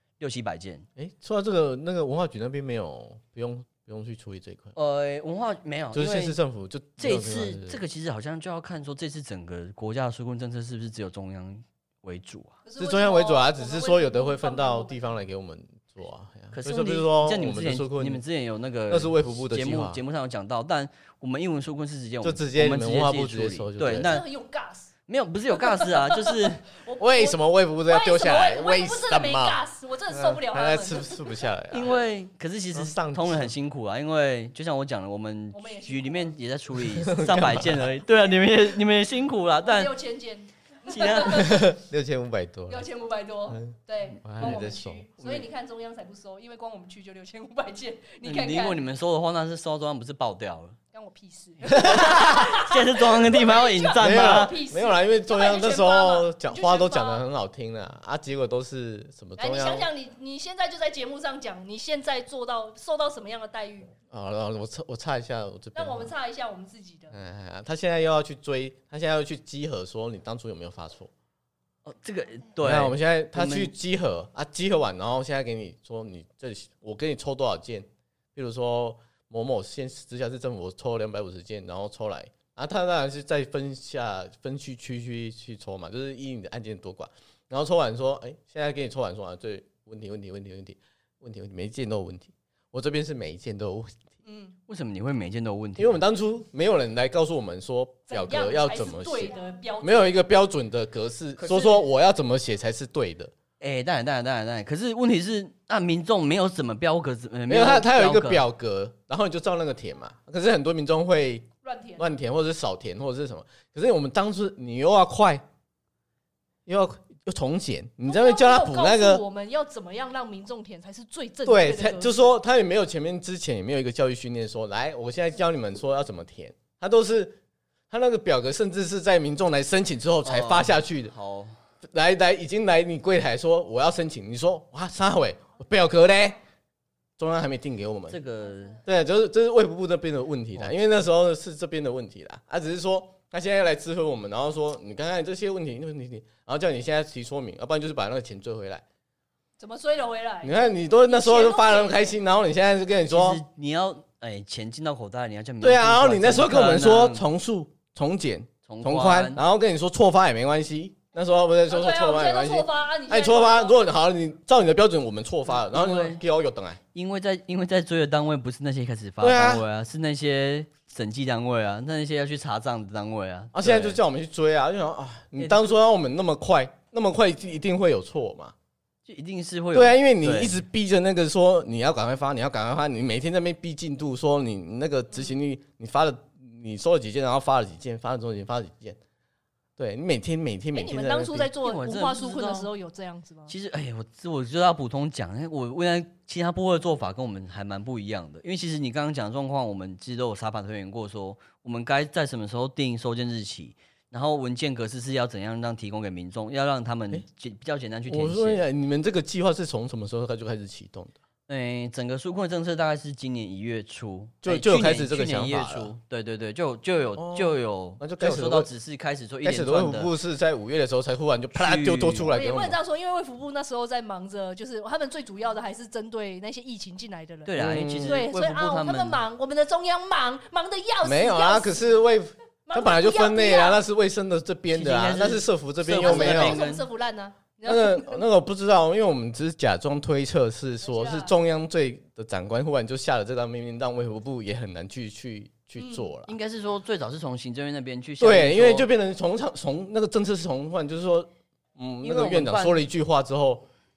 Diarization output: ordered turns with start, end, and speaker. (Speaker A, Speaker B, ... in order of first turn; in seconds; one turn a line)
Speaker A: 0.2-0.8
Speaker B: 1.0-4.7
Speaker A: 4.8-6.4
Speaker B: 5.9-7.8
Speaker A: 7.0-12.6
Speaker C: 12.6-15.1
Speaker B: 12.8-18.2
Speaker A: 16.5-24.2
Speaker B: 18.9-20.0
Speaker B: 22.2-24.1
Speaker C: 23.9-24.9
Speaker A: 25.1-26.6
Speaker C: 25.6-31.2
Speaker B: 27.0-32.0
Speaker A: 31.7-39.9
Speaker B: 32.7-33.5
Speaker C: 35.5-36.3
Speaker B: 37.0-37.9
Speaker C: 39.6-41.6
Speaker A: 40.9-41.6
Speaker B: 41.3-42.9
Speaker C: 42.7-48.8
Speaker B: 44.2-45.2
Speaker A: 48.2-50.8
Speaker C: 50.9-57.2
Speaker A: 51.7-54.5
Speaker B: 51.9-52.3
Speaker B: 54.0-59.9
Speaker C: 59.4-63.9
Speaker B: 64.1-66.1
Speaker C: 65.7-67.2
Speaker B: 67.1-71.1
Speaker A: 71.8-73.7
Speaker B: 72.6-93.9
Speaker C: 94.2-94.5
Speaker A: 94.7-96.0
Speaker B: 95.8-103.3
Speaker C: 98.1-100.2
Speaker A: 101.4-101.8
Speaker A: 103.6-108.4
Speaker B: 107.5-115.4
Speaker C: 111.6-112.1
Speaker B: 116.7-119.2
Speaker C: 118.0-122.3
Speaker B: 121.5-127.4
Speaker B: 127.9-131.1
Speaker A: 130.2-131.6
Speaker B: 131.8-136.4
Speaker B: 137.2-138.2
Speaker A: 138.1-138.8
Speaker B: 138.8-148.8
Speaker C: 149.6-152.1
Speaker B: 150.4-153.4
Speaker A: 153.1-157.2
Speaker B: 155.6-166.8
Speaker A: 158.7-159.4
Speaker C: 161.7-163.8
Speaker A: 165.7-166.2
Speaker A: 166.9-174.0
Speaker B: 169.2-169.6
Speaker B: 173.5-178.5
Speaker A: 175.4-175.7
Speaker A: 179.1-180.6
Speaker B: 179.7-189.0
Speaker B: 189.8-191.5
Speaker C: 190.7-193.5
Speaker A: 191.6-192.7
Speaker A: 193.5-208.6
Speaker B: 208.1-211.2
Speaker A: 211.5-220.1
Speaker B: 214.4-215.9
Speaker B: 217.2-218.7
Speaker B: 219.4-222.8
Speaker A: 221.5-222.3
Speaker C: 222.3-227.5
Speaker A: 227.4-229.2
Speaker B: 227.6-228.2
Speaker C: 228.0-232.0
Speaker B: 231.0-236.6
Speaker C: 232.7-233.8
Speaker A: 234.7-236.8
Speaker C: 236.0-238.2
Speaker B: 237.7-246.3
Speaker C: 240.8-241.3
Speaker C: 245.8-246.1
Speaker A: 246.3-248.9
Speaker B: 248.2-253.7
Speaker A: 252.0-252.8